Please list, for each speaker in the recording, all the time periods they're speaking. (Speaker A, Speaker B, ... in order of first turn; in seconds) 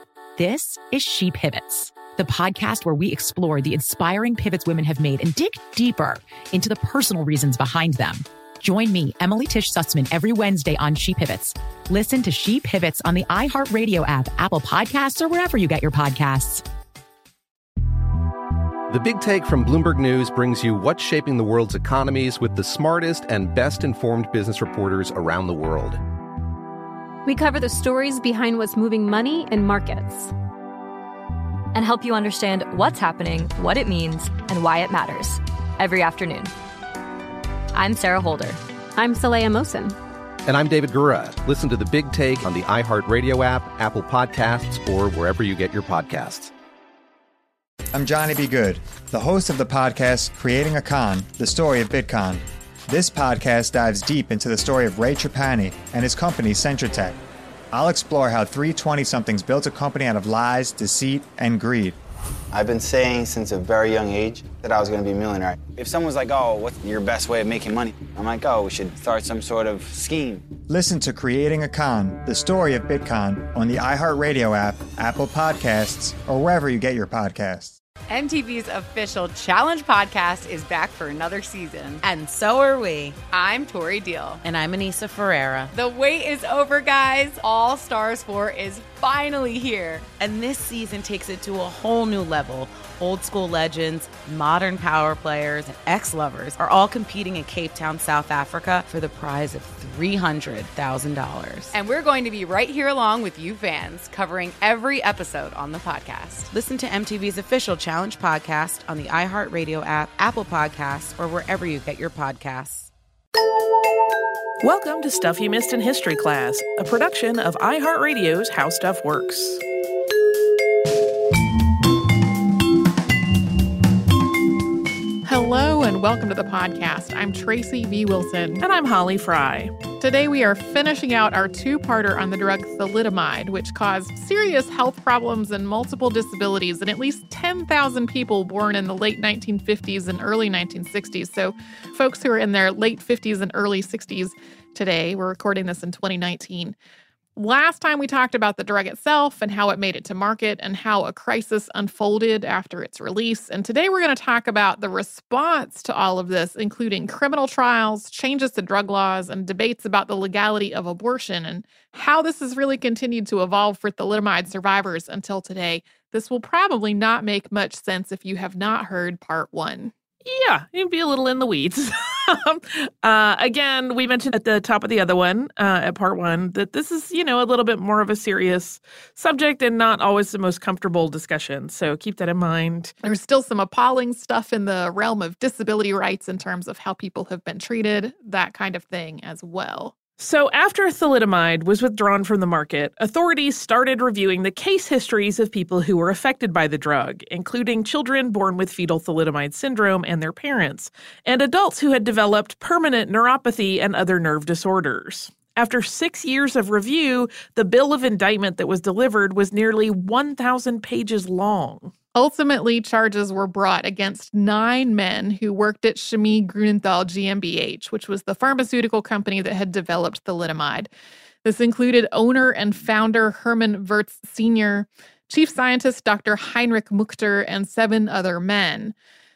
Speaker A: 0.4-16.6
Speaker B: 18.9-26.0, 40.5-46.5
Speaker C: 27.2-30.3, 39.0-40.0
Speaker D: 31.7-36.5, 37.7-38.6
Speaker E: 47.9-57.2, 57.7-62.0, 70.7-77.8
Speaker F: 62.5-70.5
Speaker G: 78.1-82.0, 83.2-84.4, 85.7-90.1, 101.7-106.5
Speaker H: 82.0-83.2, 84.4-85.7, 90.2-101.8, 106.5-112.9
Speaker I: 114.6-119.6, 128.6-129.7, 170.2-182.9, 190.2-211.9
Speaker J: 125.2-128.6, 130.0-146.7, 147.3-169.9, 183.0-189.9, 212.1-220.9, 221.4-228.9